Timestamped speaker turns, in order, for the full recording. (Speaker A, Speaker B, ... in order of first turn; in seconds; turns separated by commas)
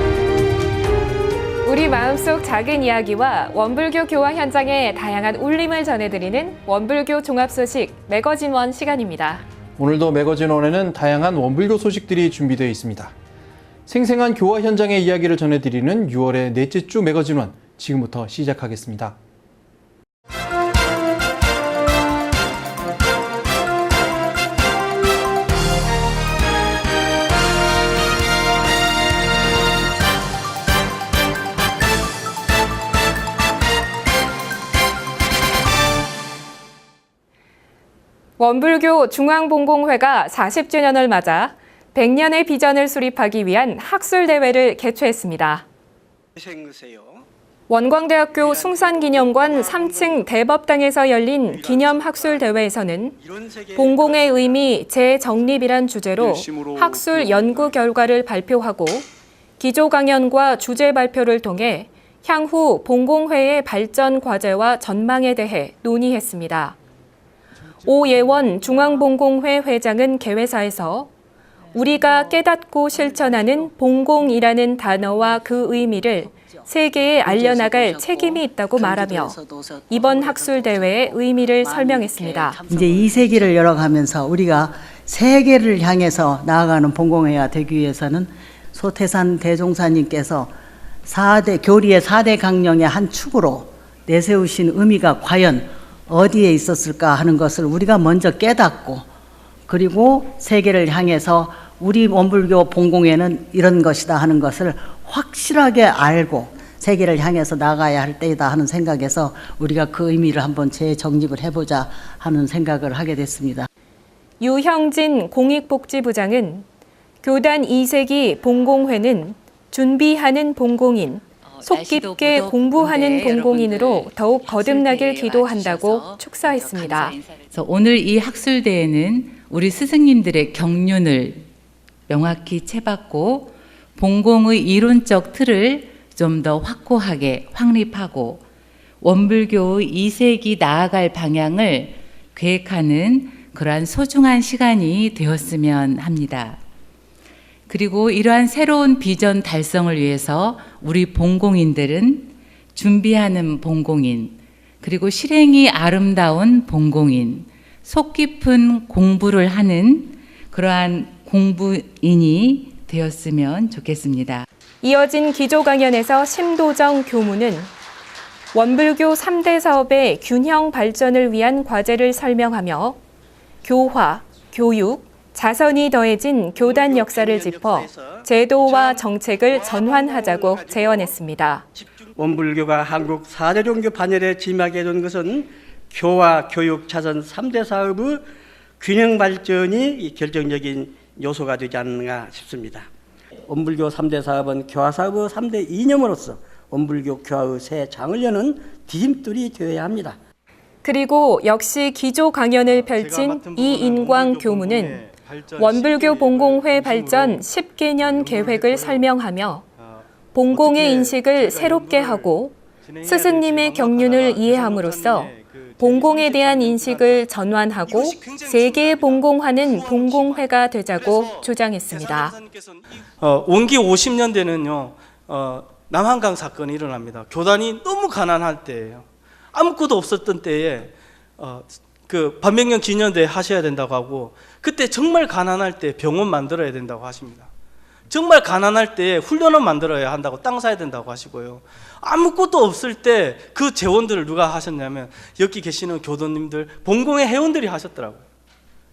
Speaker A: 1.6-9.4, Speaker B: 9.8-13.1, Speaker B: 13.9-19.2, Speaker A: 38.4-45.6, Speaker A: 47.7-53.2, Speaker A: 53.7-59.1, Speaker A: 59.6-66.8, Speaker A: 67.8-71.1, Speaker A: 71.7-79.4, Speaker C: 77.3-80.0, Speaker A: 79.9-82.6, Speaker C: 81.9-99.1, Speaker C: 99.7-113.7, Speaker A: 114.4-116.7, Speaker A: 117.2-127.2, Speaker D: 121.5-131.5, Speaker D: 132.1-138.4, Speaker D: 139.0-146.6, Speaker D: 147.7-164.5, Speaker A: 164.8-167.7, Speaker A: 168.5-173.0, Speaker A: 173.6-181.7, Speaker E: 182.2-188.3, Speaker E: 188.8-192.9, Speaker E: 193.5-200.2, Speaker A: 200.8-205.0, Speaker F: 202.7-207.4, Speaker A: 205.6-209.6, Speaker F: 208.0-209.1, Speaker F: 209.8-217.2, Speaker A: 210.3-222.4, Speaker F: 217.9-219.2, Speaker F: 222.0-237.5, Speaker F: 238.1-248.2